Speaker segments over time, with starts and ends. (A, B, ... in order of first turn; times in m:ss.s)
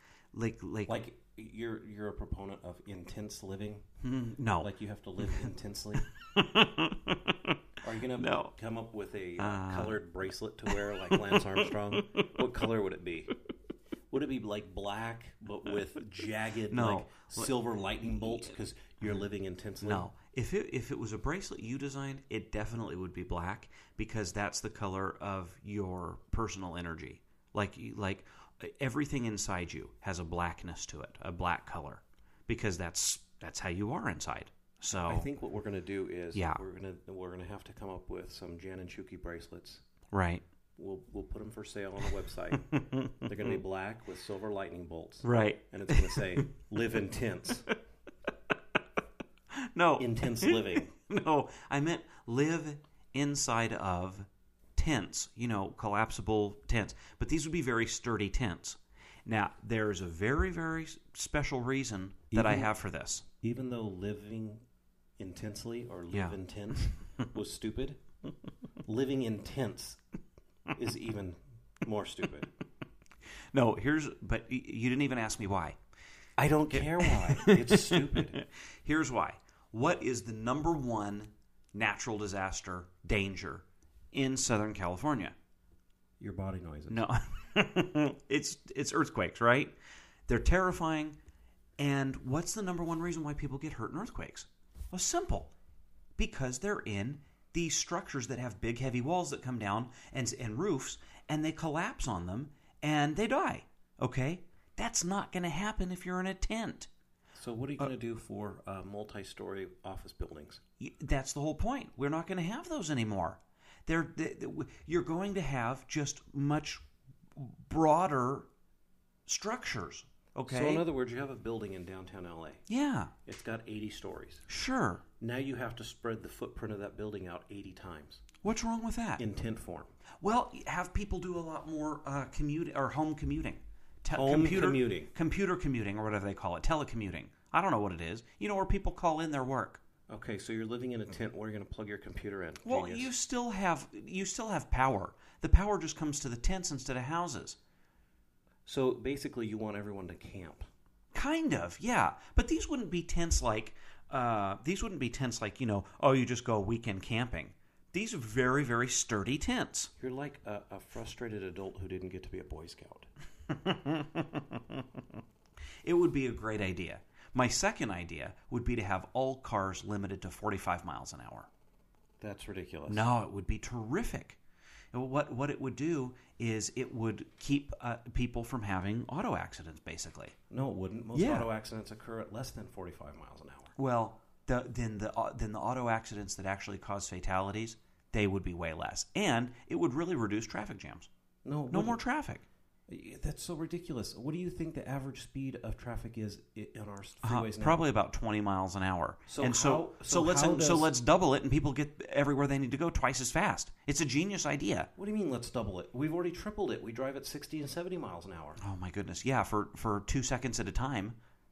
0:00.3-0:01.0 A
0:00.9-0:03.8 B
0:04.0-0:04.7 A
0:04.6-0:06.1 B
0:05.2-0:07.6 A
0:07.8-0:13.3 B
0:08.2-0:08.5 A
0:09.4-0:10.0 A
0:10.7-0:12.4 A
0:14.1-0:20.1 B
0:16.7-0:18.5 A
0:19.8-0:35.3 A
0:35.0-0:39.8 B
0:36.3-0:36.6 A
0:40.1-0:40.4 A
0:40.8-0:47.7 B
0:42.6-0:43.5 A
0:45.2-0:46.4 A
0:49.5-1:03.2 A
0:50.0-0:50.9 B
1:02.3-1:02.7 B
1:03.4-1:04.6 B
1:05.2-1:08.0 B
1:06.1-1:06.9 A
1:08.8-1:10.0 B
1:10.7-1:12.5 B
1:13.5-1:15.8 A
1:16.4-1:18.4 B
1:16.7-1:25.3 A
1:26.2-1:27.0 B
1:26.9-1:29.7 A
1:30.3-1:31.2 A
1:31.8-1:35.5 A
1:36.2-1:46.9 A
1:47.4-1:50.6 B
1:50.8-1:56.8 A
1:57.4-1:58.5 A
1:59.2-2:00.8 A
2:00.5-2:02.6 B
2:02.7-2:03.1 A
2:03.2-2:04.5 B
2:04.5-2:05.0 A
2:05.2-2:08.2 B
2:08.4-2:09.2 A
2:09.2-2:09.9 B
2:10.2-2:19.8 A
2:14.1-2:15.1 B
2:20.1-2:23.1 B
2:22.6-2:27.6 A
2:28.6-2:30.7 B
2:31.1-2:39.9 A
2:40.0-2:43.1 B
2:43.5-2:45.0 A
2:45.8-2:51.5 A
2:52.2-2:53.1 B
2:52.9-2:54.4 A
2:54.9-3:00.3 A
3:00.5-3:03.7 B
3:01.1-3:01.5 A
3:03.8-3:11.1 A
3:11.4-3:12.0 B
3:11.7-3:12.4 A
3:12.9-3:17.8 B
3:17.2-3:24.9 A
3:19.3-3:21.0 B
3:25.0-3:28.6 B
3:28.6-3:31.2 A